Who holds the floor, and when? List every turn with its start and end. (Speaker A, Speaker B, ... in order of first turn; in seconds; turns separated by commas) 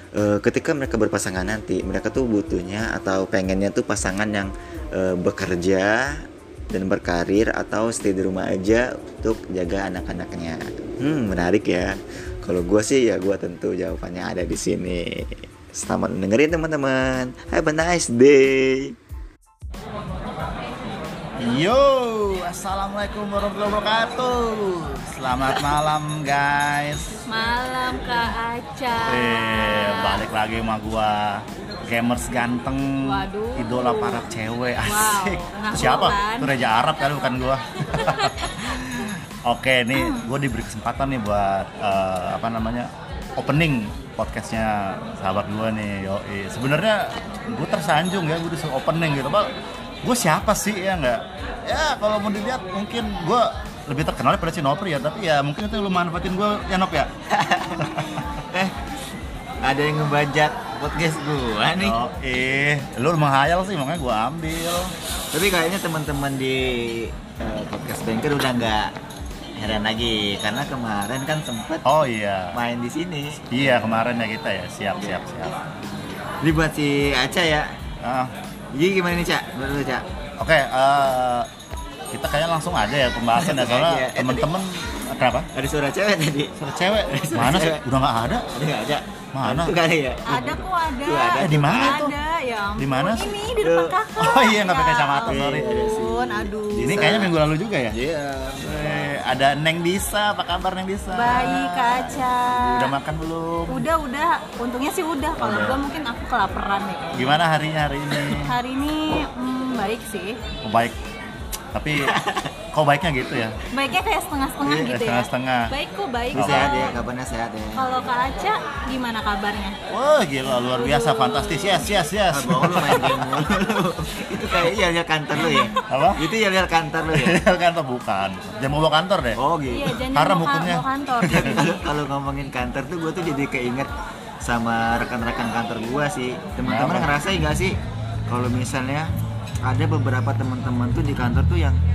Speaker A: 0.1-18.9, Speaker B: 21.4-27.1, Speaker C: 27.2-30.2, Speaker B: 29.1-49.5, Speaker C: 33.0-34.3, Speaker C: 34.8-36.5, Speaker C: 38.0-38.5, Speaker C: 39.9-40.2, Speaker B: 50.0-57.1, Speaker A: 57.3-57.9, Speaker B: 57.8-58.2, Speaker A: 58.5-58.8, Speaker A: 59.6-62.0, Speaker B: 61.8-64.9, Speaker A: 65.3-68.9, Speaker A: 69.5-71.8, Speaker B: 71.8-72.6, Speaker A: 72.5-74.0, Speaker B: 73.5-75.5, Speaker A: 76.4-77.7, Speaker B: 78.0-78.3, Speaker A: 78.7-80.0, Speaker B: 80.4-81.5, Speaker B: 82.1-85.5, Speaker A: 83.3-84.5, Speaker A: 85.5-86.5, Speaker B: 86.6-88.5, Speaker A: 87.1-87.8, Speaker A: 88.5-92.0, Speaker B: 89.3-89.7, Speaker C: 90.2-97.2, Speaker B: 91.4-92.1, Speaker B: 92.8-93.3, Speaker A: 93.6-94.0, Speaker B: 94.2-95.7, Speaker A: 95.2-97.3, Speaker B: 96.8-98.0, Speaker A: 97.9-99.2, Speaker B: 98.6-103.8, Speaker C: 101.1-102.9, Speaker C: 103.7-107.4, Speaker B: 105.4-105.8, Speaker B: 107.1-108.5, Speaker C: 108.1-110.4, Speaker B: 110.6-111.0, Speaker B: 111.7-112.2, Speaker A: 112.0-112.5, Speaker B: 112.7-113.6, Speaker C: 113.7-117.0, Speaker A: 114.6-114.9, Speaker B: 114.8-115.7, Speaker A: 116.3-118.0, Speaker B: 116.3-116.9, Speaker C: 117.7-119.8, Speaker B: 119.9-123.5, Speaker C: 120.7-121.9, Speaker A: 122.3-127.4, Speaker C: 125.4-125.8, Speaker B: 125.9-126.2, Speaker B: 127.1-129.4, Speaker A: 129.3-130.0, Speaker C: 129.7-131.7, Speaker B: 130.1-131.6, Speaker A: 131.2-137.8, Speaker B: 136.7-137.1, Speaker A: 138.3-139.1, Speaker A: 139.6-141.8